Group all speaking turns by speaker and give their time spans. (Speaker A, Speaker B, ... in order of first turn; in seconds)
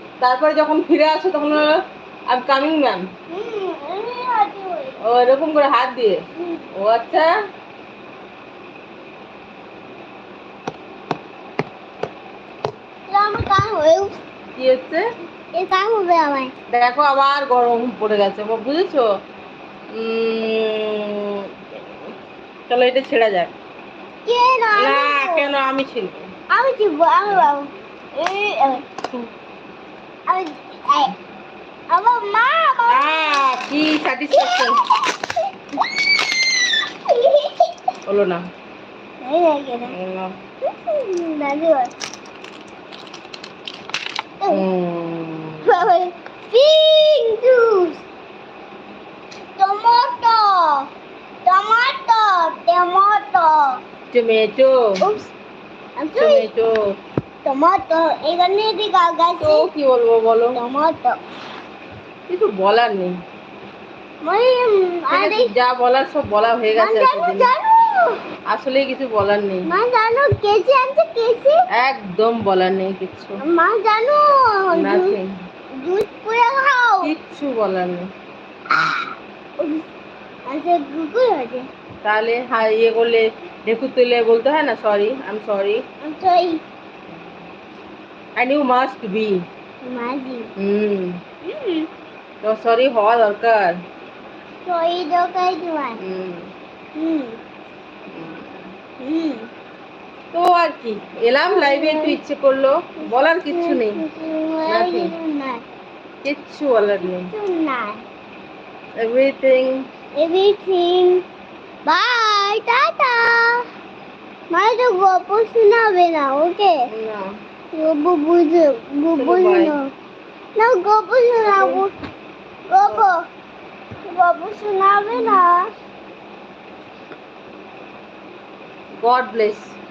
Speaker A: 0.2-1.8, 2.3-3.1, 5.0-6.2, 6.8-7.3, 14.6-15.0, 16.7-19.1, 19.9-21.5, 22.7-23.5, 24.8-26.3, 32.9-34.8, 38.1-38.4, 39.9-40.3, 44.5-45.9, 54.1-55.0, 56.2-56.9, 59.4-60.6, 62.3-63.2, 65.1-67.5, 68.5-69.7, 71.7-73.4, 74.7-75.3, 77.0-78.1, 82.0-85.8, 88.4-89.4, 90.6-91.2, 92.4-93.8, 96.0-96.5, 98.1-98.6, 100.3-104.0, 104.7-105.1, 106.2-107.3, 109.0-109.7, 116.9-117.3, 119.2-119.7, 121.4-121.8, 125.1-125.4, 129.0-129.8
Speaker B: 3.3-5.0, 6.4-6.7, 13.1-14.2, 15.6-16.5, 24.3-25.5, 26.5-28.9, 30.3-31.1, 31.9-33.5, 34.3-38.0, 39.2-39.9, 40.6-41.9, 45.6-48.0, 49.6-50.9, 51.5-53.8, 55.0-55.3, 56.0-56.5, 57.5-59.7, 60.6-61.2, 64.2-65.5, 66.8-68.2, 69.7-71.6, 73.4-75.2, 75.8-77.1, 78.7-79.9, 80.5-81.7, 86.0-86.6, 89.8-90.5, 91.4-91.9, 94.7-96.0, 97.0-97.4, 99.0-99.5, 101.5-102.2, 103.0-105.6, 107.0-108.0, 110.2-111.2, 111.9-113.7, 114.5-116.8, 117.7-119.9, 120.6-121.9, 122.7-123.2, 124.0-125.7